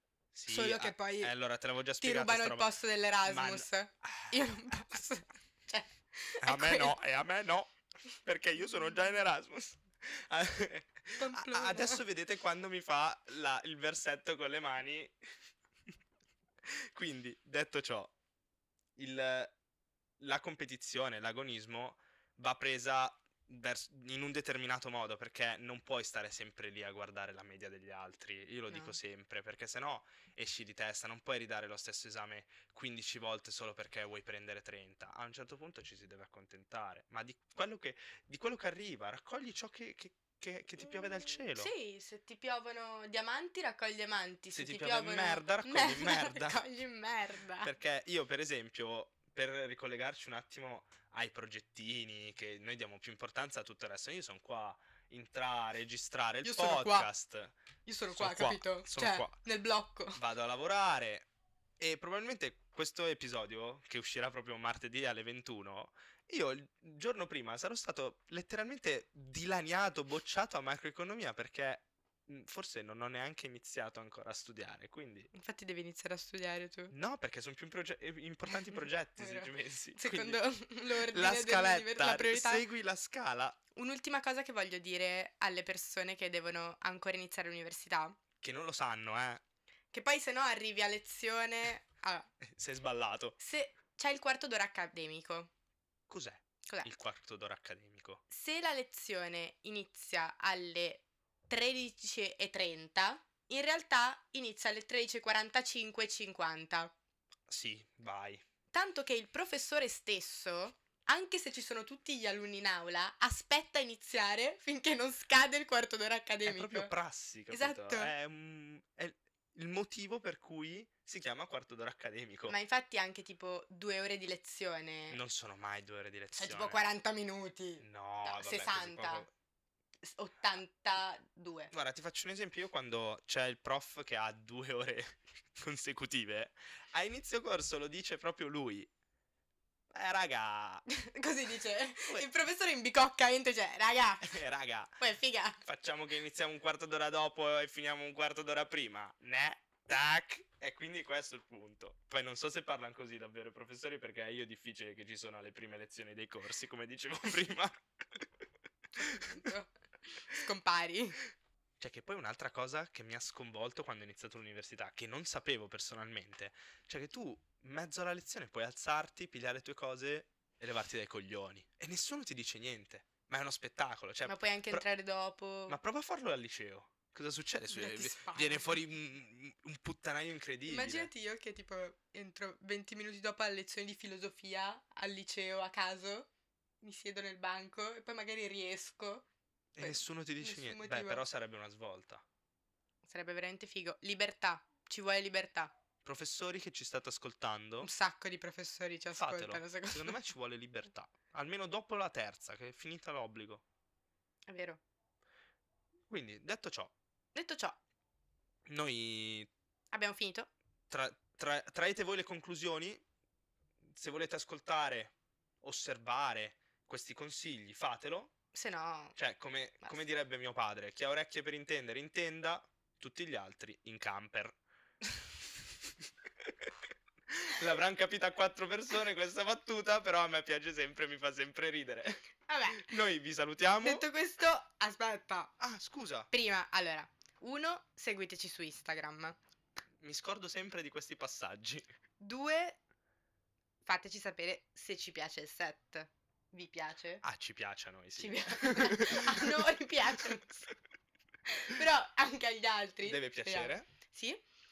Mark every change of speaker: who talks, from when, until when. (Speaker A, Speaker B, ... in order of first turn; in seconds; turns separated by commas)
Speaker A: 0.3-2.7, Speaker B: 0.5-1.3, Speaker B: 2.0-6.9, Speaker A: 3.2-4.6, Speaker A: 6.4-15.1, Speaker B: 11.2-12.0, Speaker A: 16.7-18.1, Speaker A: 19.0-19.6, Speaker A: 20.2-41.7, Speaker B: 28.7-29.0, Speaker B: 40.8-47.7, Speaker A: 44.5-46.6, Speaker A: 47.6-57.5, Speaker B: 56.4-57.1, Speaker B: 57.8-60.2, Speaker A: 58.1-59.4, Speaker A: 60.1-61.3, Speaker A: 61.8-75.3, Speaker B: 75.3-76.9, Speaker A: 76.9-83.6, Speaker B: 78.5-82.7, Speaker B: 83.7-88.2, Speaker A: 88.4-89.4, Speaker B: 89.9-92.3, Speaker A: 92.4-93.4, Speaker B: 93.4-95.5, Speaker A: 96.1-98.2, Speaker B: 98.3-106.9, Speaker A: 107.5-108.4, Speaker B: 108.7-116.9, Speaker A: 116.4-122.5, Speaker B: 117.5-118.1, Speaker B: 122.5-125.2, Speaker A: 125.1-126.8, Speaker B: 126.3-129.3, Speaker A: 127.8-129.3, Speaker B: 130.0-131.7, Speaker A: 131.7-138.9, Speaker A: 139.9-140.8, Speaker B: 140.9-144.4, Speaker A: 144.2-145.0, Speaker B: 145.0-145.6, Speaker A: 145.6-157.7, Speaker B: 159.0-161.2, Speaker A: 159.0-159.3, Speaker A: 161.8-174.8, Speaker B: 174.2-175.8, Speaker A: 175.7-181.1, Speaker B: 177.7-178.7, Speaker B: 180.7-186.3, Speaker B: 186.8-189.3, Speaker A: 189.7-192.2, Speaker B: 189.8-191.2, Speaker B: 193.0-195.8, Speaker A: 196.0-197.9, Speaker B: 197.8-200.2, Speaker A: 199.1-203.6, Speaker B: 204.5-204.8, Speaker A: 206.1-206.9, Speaker B: 207.3-207.8, Speaker A: 208.7-209.5, Speaker B: 209.9-210.5, Speaker A: 210.9-213.0, Speaker A: 213.9-218.3, Speaker B: 218.5-219.2, Speaker A: 219.2-224.6, Speaker B: 219.8-220.1, Speaker A: 227.3-234.0, Speaker B: 232.5-233.0, Speaker B: 233.8-235.5, Speaker A: 235.6-236.3, Speaker B: 236.3-239.4, Speaker A: 240.0-241.9, Speaker B: 242.2-242.8, Speaker B: 243.8-247.2, Speaker A: 247.2-249.5, Speaker B: 248.2-250.6, Speaker B: 251.5-254.4, Speaker A: 253.0-253.9